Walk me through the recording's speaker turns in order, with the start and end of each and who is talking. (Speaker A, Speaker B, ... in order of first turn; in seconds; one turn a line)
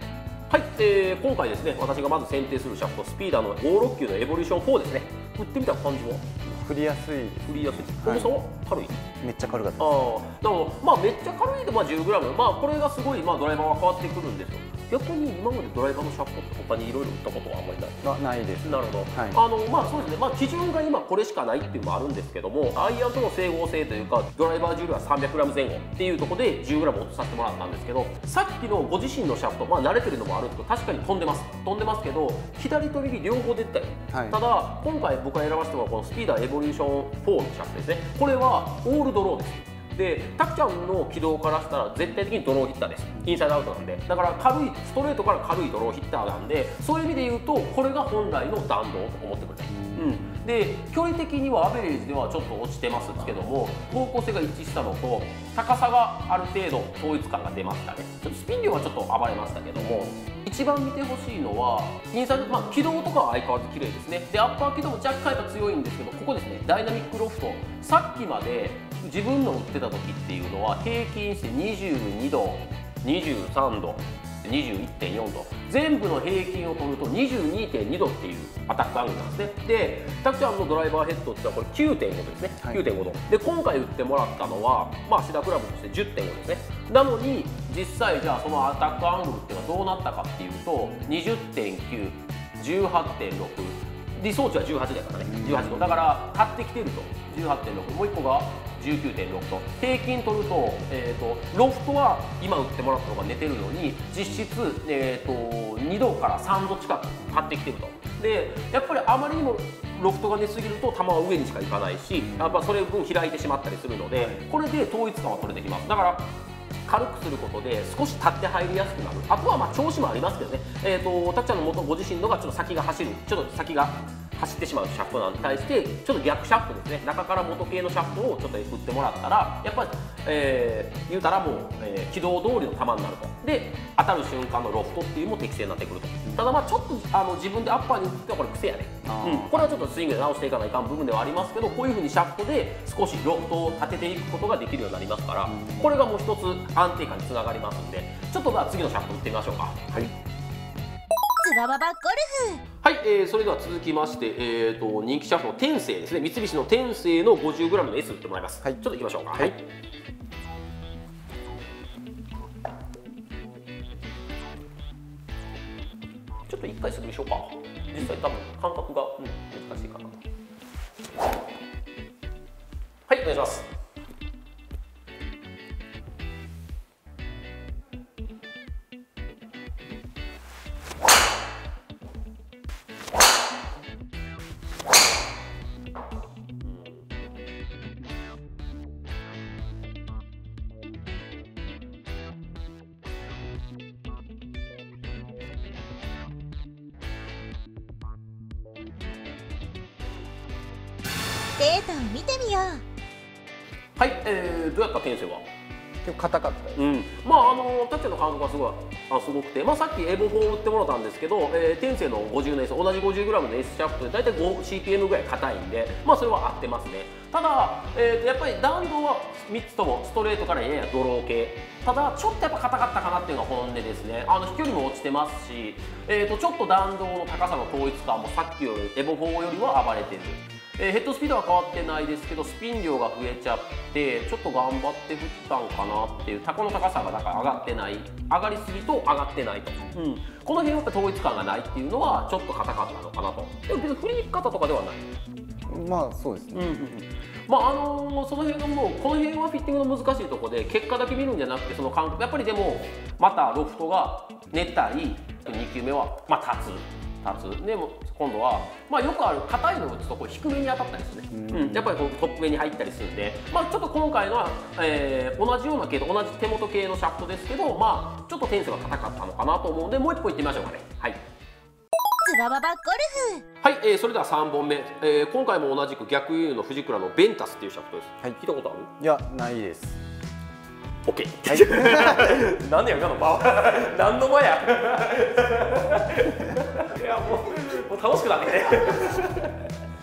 Speaker A: 0.5-6.3
Speaker B: 6.5-8.3
Speaker A: 7.5-9.0
Speaker B: 9.2-10.2
Speaker A: 9.8-18.1
Speaker B: 18.0-19.4
Speaker A: 18.6-116.3
Speaker B: 34.1-34.4
Speaker B: 49.9-50.2
Speaker B: 95.2-96.0
Speaker B: 112.2-112.6
Speaker B: 114.2-114.4
Speaker A: 116.9-150.1
Speaker B: 139.1-139.9
Speaker B: 145.5-145.9
Speaker C: 151.4-152.6
Speaker A: 152.8-159.6
Speaker A: 166.5-170.2
Speaker A: 173.1-173.7
Speaker A: 186.7-187.0
Speaker C: 201.6-202.8
Speaker A: 204.0-205.5
Speaker B: 206.0-206.8
Speaker A: 206.8-245.1
Speaker B: 245.7-247.0
Speaker A: 246.5-271.2
Speaker B: 261.3-261.9
Speaker C: 272.2-273.4
Speaker A: 273.6-278.9
Speaker B: 279.0-280.0
Speaker A: 281.1-289.6
Speaker B: 281.5-282.4